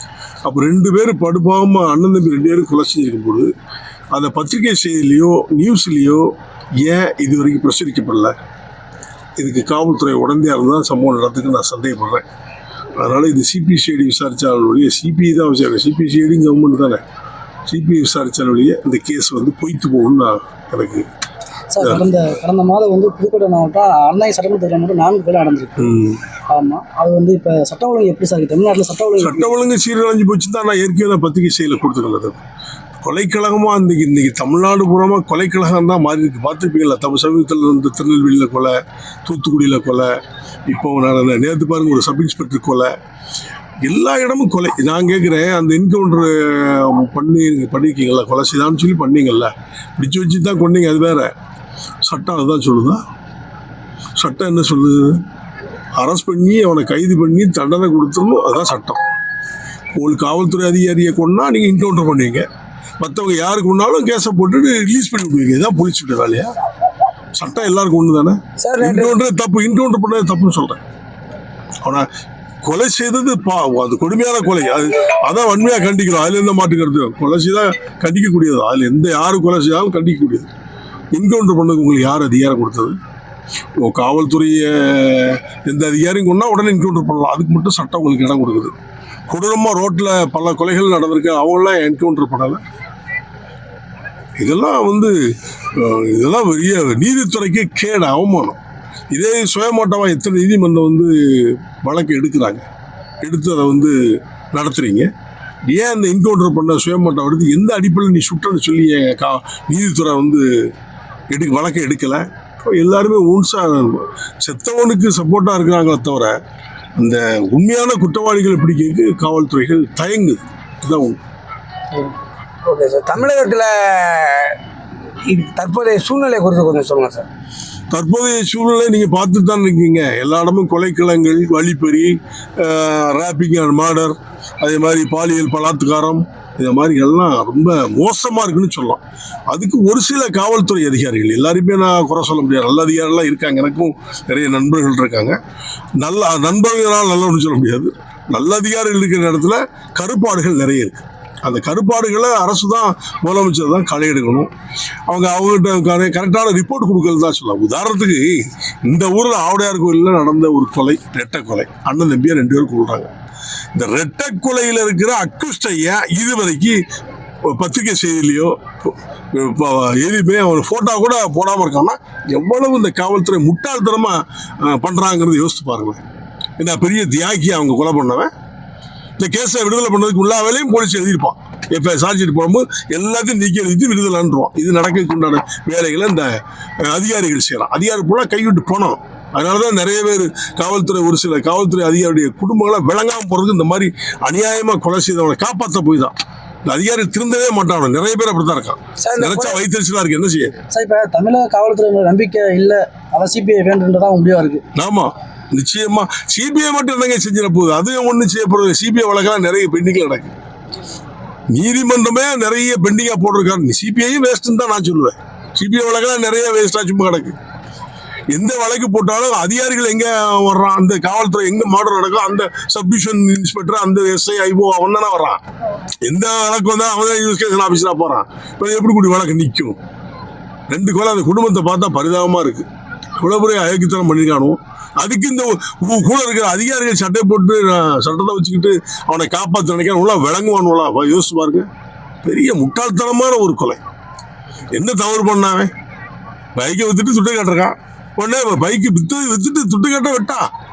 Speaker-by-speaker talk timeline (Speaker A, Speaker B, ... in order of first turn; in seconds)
Speaker A: 0.5-3.5, 4.1-6.3, 6.8-8.3, 9.4-12.2, 13.0-17.0, 17.7-21.1, 25.8-26.2, 29.2-32.4, 33.0-40.1, 40.7-42.9, 43.8-51.3, 52.0-53.0, 54.2-55.2, 56.0-59.0, 59.9-62.5, 63.0-66.5, 67.3-70.8, 72.6-80.5, 81.1-83.0, 83.8-88.7, 89.3-92.6, 94.4-95.2, 95.7-98.6, 99.1-102.6, 103.2-104.0, 104.5-105.1, 105.7-110.5, 111.3-116.4, 117.0-121.2, 127.9-145.4, 146.0-154.5, 155.1-158.3, 158.8-163.1, 163.8-166.8, 167.5-176.0, 176.6-178.3, 179.2-196.1, 196.7-200.6, 204.8-210.3, 211.5-217.3, 218.3-225.4, 226.0-229.8, 230.7-232.7, 233.2-241.7, 242.2-243.8, 244.7-245.7, 246.6-250.5
Speaker B: 21.7-25.9, 26.5-29.5, 199.0-199.6, 200.7-204.6
Speaker C: 68.6-69.1, 122.7-124.5, 125.3-127.3